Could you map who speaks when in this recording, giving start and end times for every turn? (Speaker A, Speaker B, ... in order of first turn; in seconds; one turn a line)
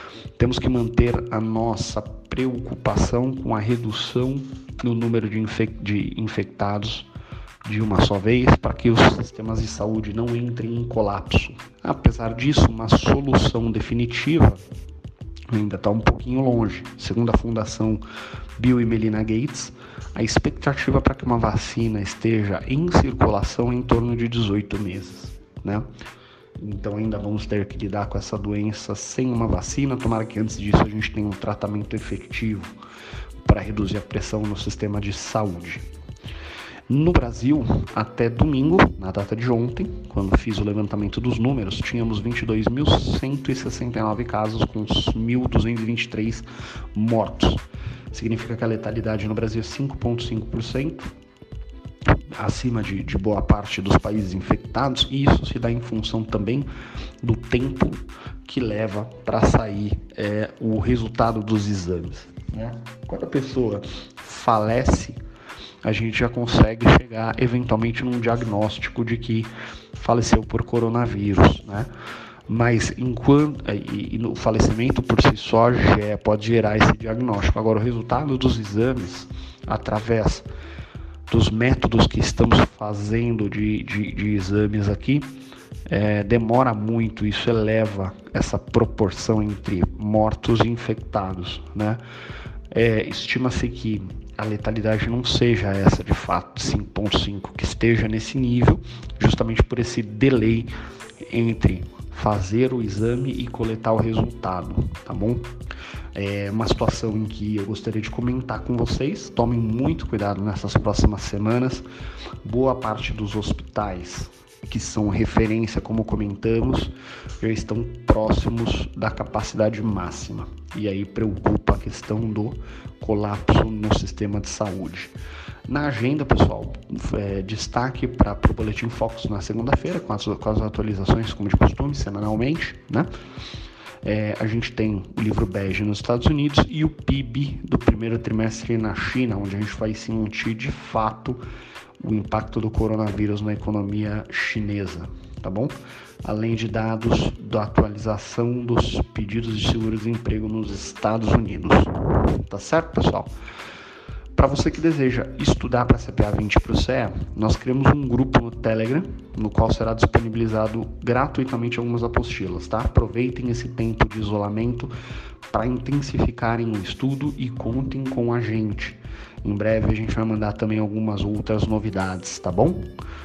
Speaker A: 0.4-7.1
Speaker A: 7.6-14.6
Speaker A: 15.5-18.0
Speaker A: 18.6-25.9
Speaker A: 26.6-32.8
Speaker A: 33.4-35.9
Speaker A: 36.9-51.1
Speaker A: 52.3-56.7
Speaker A: 57.2-65.2
Speaker A: 65.8-71.9
Speaker A: 72.5-80.5
Speaker A: 81.3-85.3
Speaker A: 85.9-92.0
Speaker A: 92.7-100.7
Speaker A: 101.3-105.5
Speaker A: 106.2-111.9
Speaker A: 112.4-125.1
Speaker A: 125.7-133.1
Speaker A: 134.0-141.4
Speaker A: 142.0-153.3
Speaker A: 154.3-164.9
Speaker A: 165.5-172.9